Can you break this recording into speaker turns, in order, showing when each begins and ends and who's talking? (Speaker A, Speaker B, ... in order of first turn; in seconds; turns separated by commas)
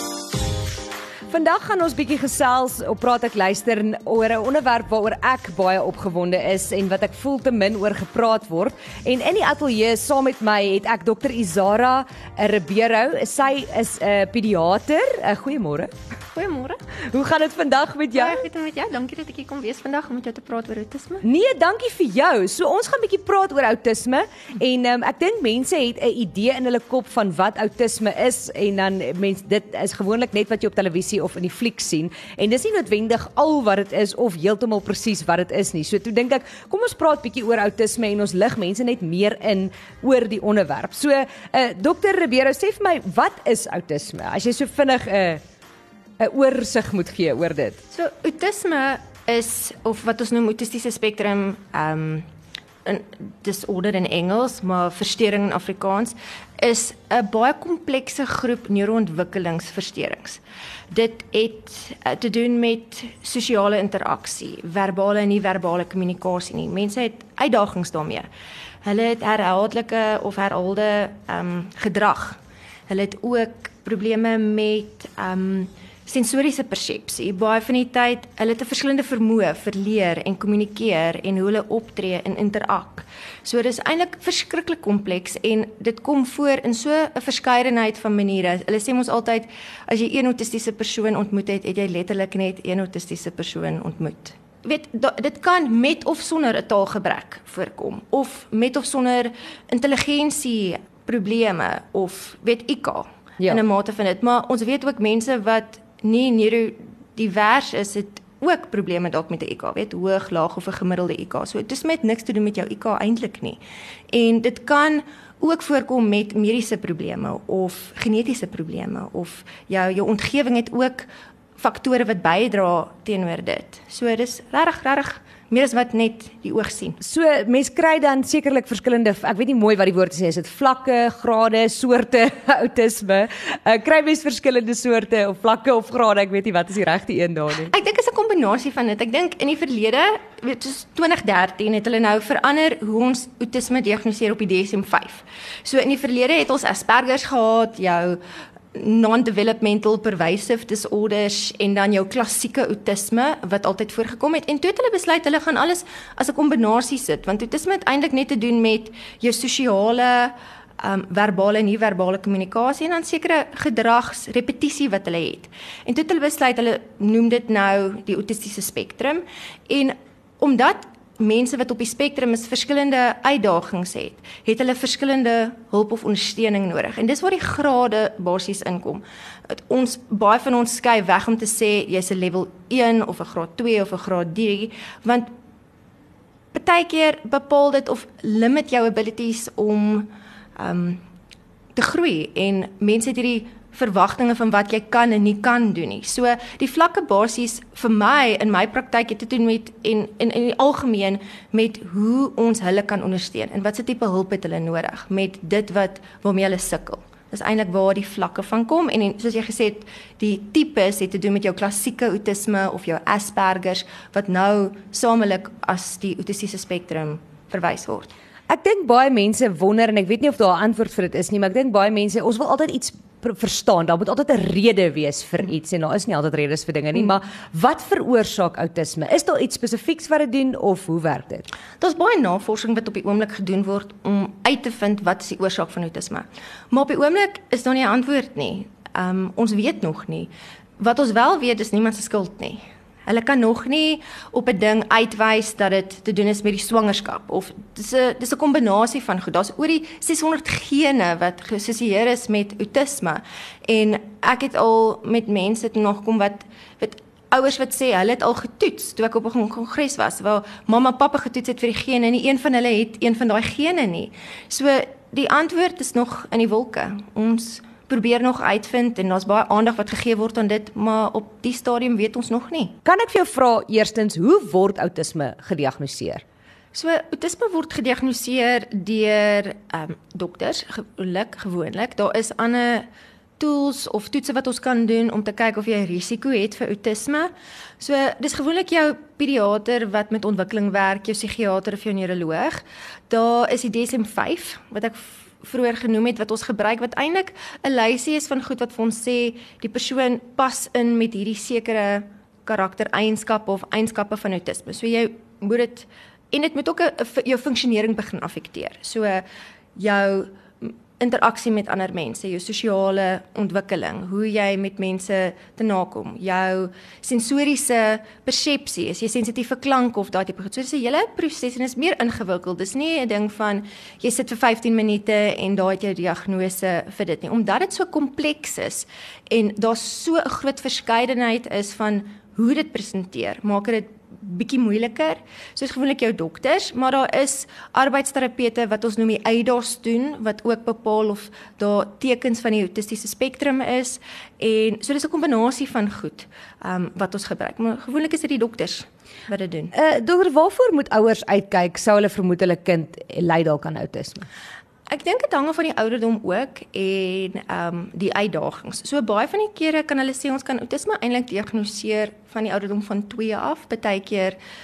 Speaker A: 1.3-15.9, Speaker B: 16.3-16.8, Speaker A: 17.1-18.4, Speaker B: 18.1-21.2, Speaker A: 21.2-45.4, Speaker A: 46.2-47.8, Speaker B: 47.9-52.3, Speaker B: 52.9-60.4, Speaker B: 60.9-68.3, Speaker B: 68.8-113.6, Speaker B: 114.1-127.0, Speaker A: 127.0-137.7, Speaker B: 137.5-148.2, Speaker B: 148.7-185.3, Speaker B: 186.5-191.0, Speaker B: 191.8-218.1, Speaker A: 218.5-231.4, Speaker B: 231.8-272.8, Speaker A: 272.9-276.2, Speaker B: 276.7-282.9, Speaker B: 283.4-349.7, Speaker A: 349.7-354.3, Speaker B: 354.9-364.4